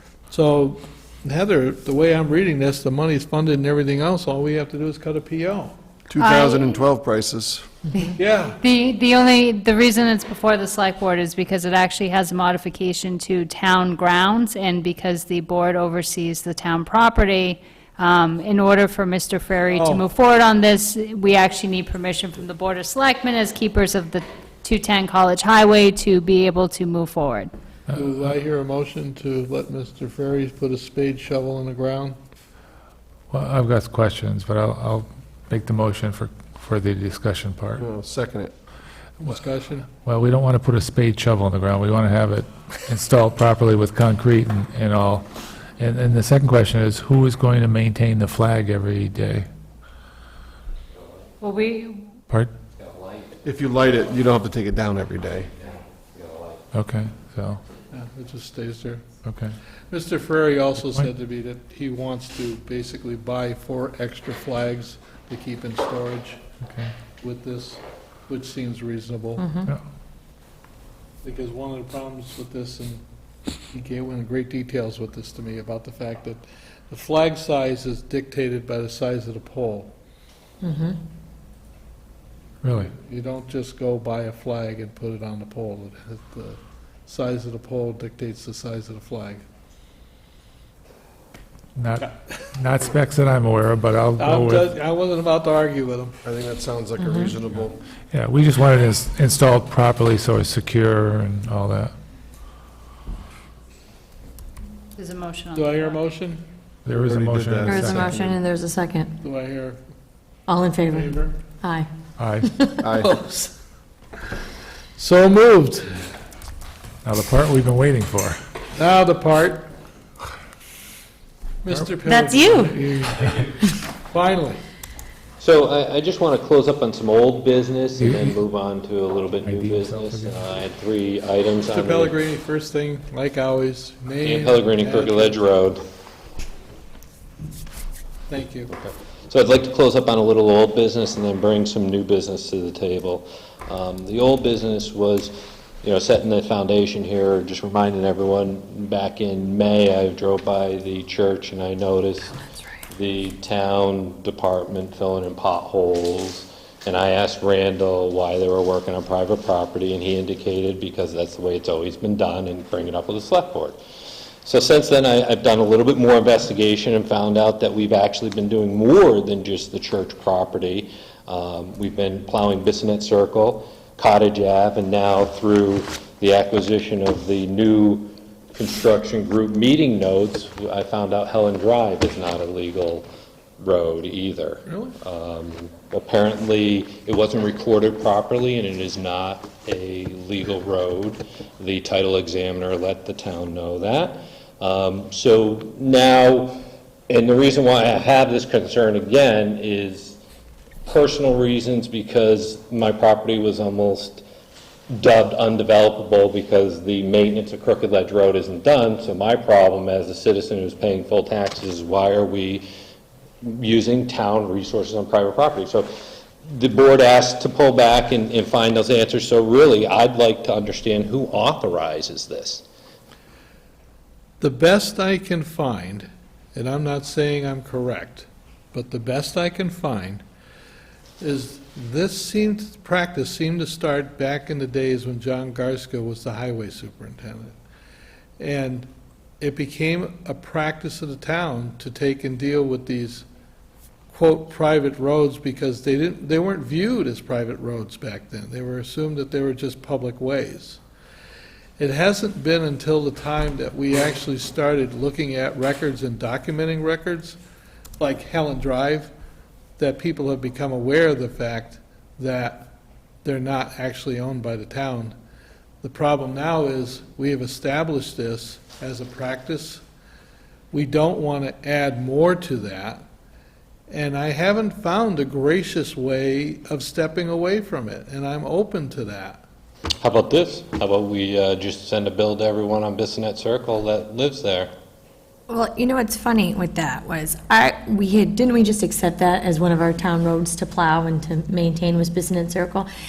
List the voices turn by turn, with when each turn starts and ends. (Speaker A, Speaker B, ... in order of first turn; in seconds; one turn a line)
Speaker A: 0.3-5.7
Speaker B: 6.1-7.7
Speaker C: 6.1-6.9
Speaker C: 8.0-27.5
Speaker A: 8.1-8.6
Speaker A: 19.7-20.0
Speaker A: 27.9-32.2
Speaker D: 33.3-37.9
Speaker B: 37.8-38.5
Speaker A: 39.2-39.9
Speaker D: 40.0-45.3
Speaker D: 45.8-49.5
Speaker E: 50.9-51.3
Speaker C: 51.4-52.2
Speaker E: 52.8-53.4
Speaker B: 53.4-55.5
Speaker E: 55.5-56.6
Speaker D: 56.7-57.6
Speaker A: 57.9-59.0
Speaker D: 59.2-59.6
Speaker A: 59.9-66.4
Speaker D: 66.6-66.9
Speaker A: 67.2-69.5
Speaker F: 69.4-69.7
Speaker A: 71.2-73.0
Speaker A: 73.7-79.9
Speaker F: 80.6-81.0
Speaker D: 82.6-82.9
Speaker A: 82.8-89.4
Speaker D: 91.8-94.7
Speaker A: 92.0-92.4
Speaker A: 94.2-96.2
Speaker B: 96.2-97.8
Speaker F: 97.0-97.3
Speaker D: 98.1-101.9
Speaker C: 105.0-106.0
Speaker A: 105.5-106.4
Speaker D: 106.9-108.1
Speaker B: 106.9-108.4
Speaker F: 107.7-109.2
Speaker A: 109.2-109.8
Speaker F: 110.5-111.9
Speaker A: 110.9-111.3
Speaker D: 112.2-112.5
Speaker F: 112.5-112.8
Speaker B: 112.8-113.1
Speaker A: 113.0-113.5
Speaker A: 115.0-116.0
Speaker D: 117.0-118.4
Speaker A: 118.7-119.7
Speaker A: 121.6-124.6
Speaker F: 122.1-122.8
Speaker E: 125.4-132.1
Speaker D: 128.0-128.4
Speaker D: 129.4-130.4
Speaker A: 131.7-135.4
Speaker E: 134.2-135.8
Speaker A: 138.3-138.7
Speaker E: 138.7-152.4
Speaker E: 152.9-163.8
Speaker E: 164.4-183.1
Speaker E: 183.6-200.2
Speaker A: 184.7-185.0
Speaker E: 200.9-204.3
Speaker E: 204.9-212.7
Speaker E: 213.4-215.9
Speaker E: 216.4-222.7
Speaker A: 224.4-230.2
Speaker A: 231.2-237.6
Speaker A: 238.4-238.9
Speaker A: 239.4-243.3
Speaker A: 244.1-250.8
Speaker A: 251.8-257.4
Speaker A: 258.0-259.1
Speaker A: 259.8-262.7
Speaker A: 263.2-265.1
Speaker A: 265.8-269.8
Speaker A: 270.7-273.1
Speaker A: 273.9-279.4
Speaker E: 280.0-284.7
Speaker F: 285.5-292.9